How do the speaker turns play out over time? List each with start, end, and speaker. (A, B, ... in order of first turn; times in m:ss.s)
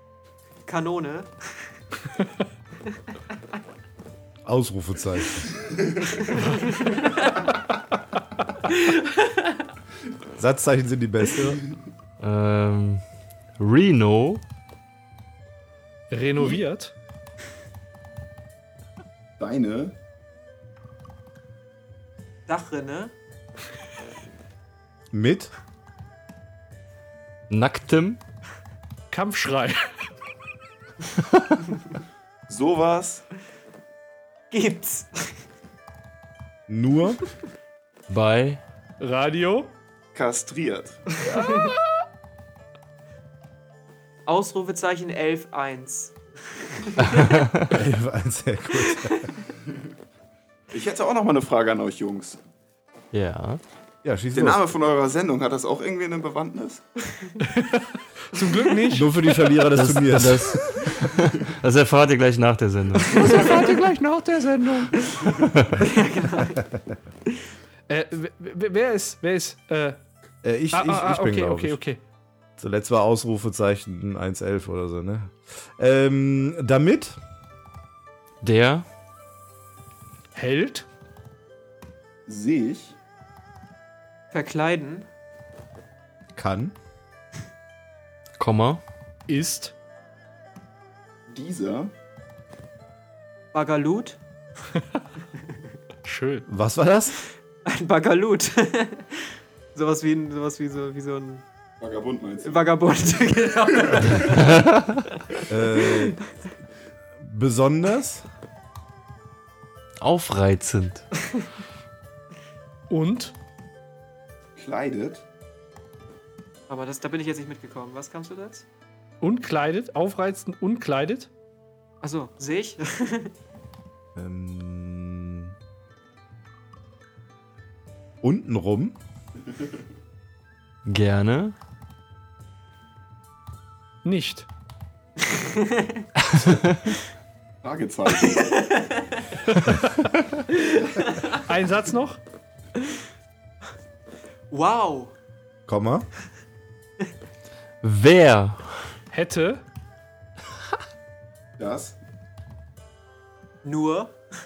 0:00.6-0:01.6 A
0:04.4-0:05.6 B
0:06.4-0:07.1 A
0:08.7-0:09.6 A
0:10.4-0:11.6 B
0:12.2-0:13.0 C
0:13.6-0:14.4 C
0:16.1-0:16.9 D
0:19.4-0:19.9 E
0:22.5-0:23.1 A
0:25.1-0:25.5 B
0:27.5-0:28.2 C
0:29.1-0:29.9 D
0:32.5-0:33.2 E
0:34.5-0:35.4 A
0:36.7-0:37.2 B
0:38.1-0:38.6 C
0:39.0-0:39.7 D
0:40.1-0:41.0 E
0:41.3-0:41.7 A
0:44.2-0:47.2 A
0:47.0-0:47.7 C
0:47.7-0:49.3 B
0:50.7-0:52.4 E
0:53.1-0:53.6 C
0:54.0-0:54.6 B
0:54.3-0:56.8 E
0:57.4-0:59.1 D
0:58.9-1:01.0 B
0:59.7-1:03.6 C
1:03.0-1:05.0 D
1:05.1-1:06.6 A
1:05.4-1:05.8 C
1:07.9-1:10.0 D
1:10.4-1:11.8 B
1:10.7-1:12.0 D
1:12.6-1:17.2 B
1:18.4-1:18.8 C
1:20.3-1:20.9 D
1:22.3-1:23.0 E
1:24.3-1:25.1 A
1:26.4-1:26.7 B
1:28.4-1:28.8 C
1:29.3-1:29.7 D
1:31.3-1:31.9 E
1:33.5-1:34.2 A
1:36.0-1:36.5 D
1:36.5-1:37.2 B
1:37.6-1:41.4 A
1:41.8-1:42.8 E
1:42.4-1:44.6 A
1:43.8-1:44.5 E
1:44.4-1:45.0 C
1:45.5-1:46.2 B
1:45.7-1:46.1 A
1:47.2-1:48.2 B
1:50.0-1:51.0 C
1:52.9-1:53.3 D
1:54.6-1:55.2 E
1:56.7-1:58.6 A
1:59.2-2:01.3 D
2:02.0-2:03.3 A
2:04.2-2:05.5 B
2:08.2-2:09.0 B
2:10.8-2:11.5 C
2:14.0-2:14.5 D
2:15.3-2:16.0 A
2:16.3-2:16.7 C
2:17.6-2:18.7 E
2:18.2-2:19.0 A
2:19.5-2:20.1 D
2:20.5-2:21.4 A
2:21.4-2:22.2 D
2:24.5-2:25.1 A
2:25.7-2:26.0 B
2:27.8-2:28.9 C
2:29.1-2:29.6 D
2:31.6-2:32.0 E
2:33.6-2:34.1 A